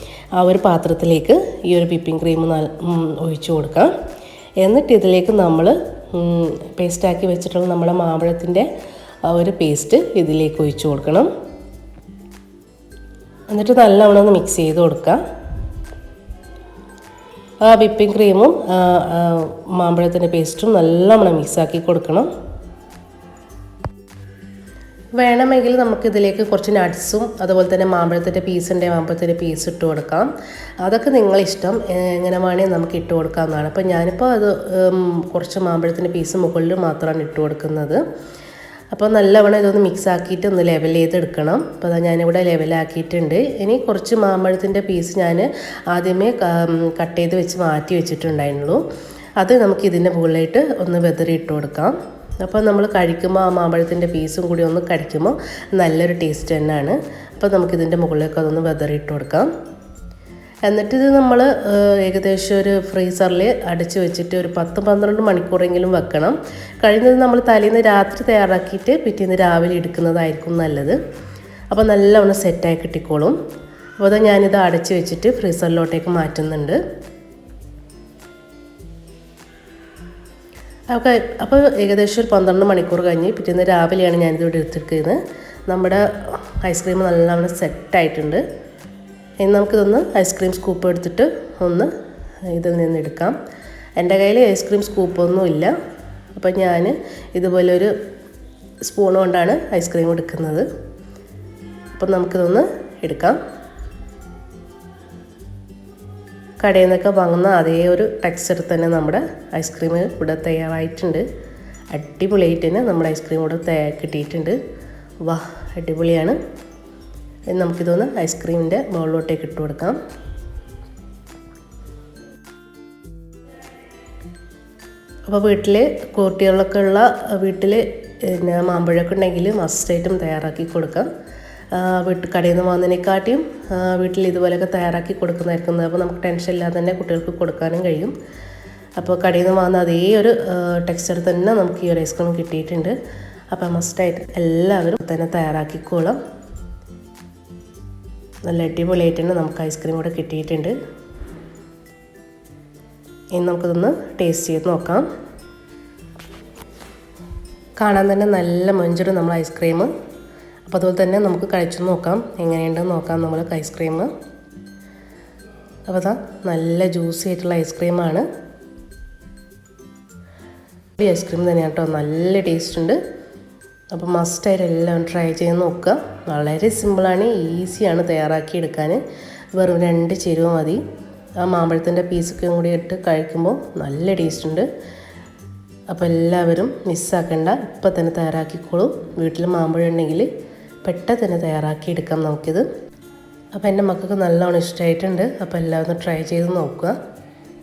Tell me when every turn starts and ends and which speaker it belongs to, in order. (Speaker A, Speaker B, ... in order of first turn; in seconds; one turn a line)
Speaker A: 0.3-3.9
Speaker A: 4.6-8.7
Speaker A: 9.3-11.3
Speaker A: 13.5-15.2
Speaker A: 17.6-22.3
Speaker A: 25.2-30.3
Speaker A: 30.8-38.0
Speaker A: 38.9-48.8
Speaker A: 49.4-59.5
Speaker A: 60.6-71.0
Speaker A: 71.7-73.4
Speaker A: 74.0-76.8
Speaker A: 80.9-88.4
Speaker A: 89.4-91.9
Speaker A: 92.5-93.3
Speaker A: 94.0-95.7
Speaker A: 96.3-97.9
Speaker A: 98.8-100.7
Speaker A: 102.0-103.4
Speaker A: 106.6-111.2
Speaker A: 111.9-114.6
Speaker A: 115.2-116.4
Speaker A: 117.5-120.0
Speaker A: 125.3-131.1
Speaker A: 131.7-138.1
Speaker A: 139.0-142.9
Speaker A: 143.5-146.2
Speaker A: 148.4-150.7
Speaker A: 153.3-155.1
Speaker A: 157.8-159.9
Speaker A: 160.7-164.1
Speaker A: 165.9-168.2
Speaker A: 171.0-173.0
Speaker A: 173.9-179.0
Speaker A: 179.6-180.8
Speaker A: 181.4-184.7
Speaker A: 185.9-190.3
Speaker A: 190.8-192.7
Speaker A: 193.5-197.0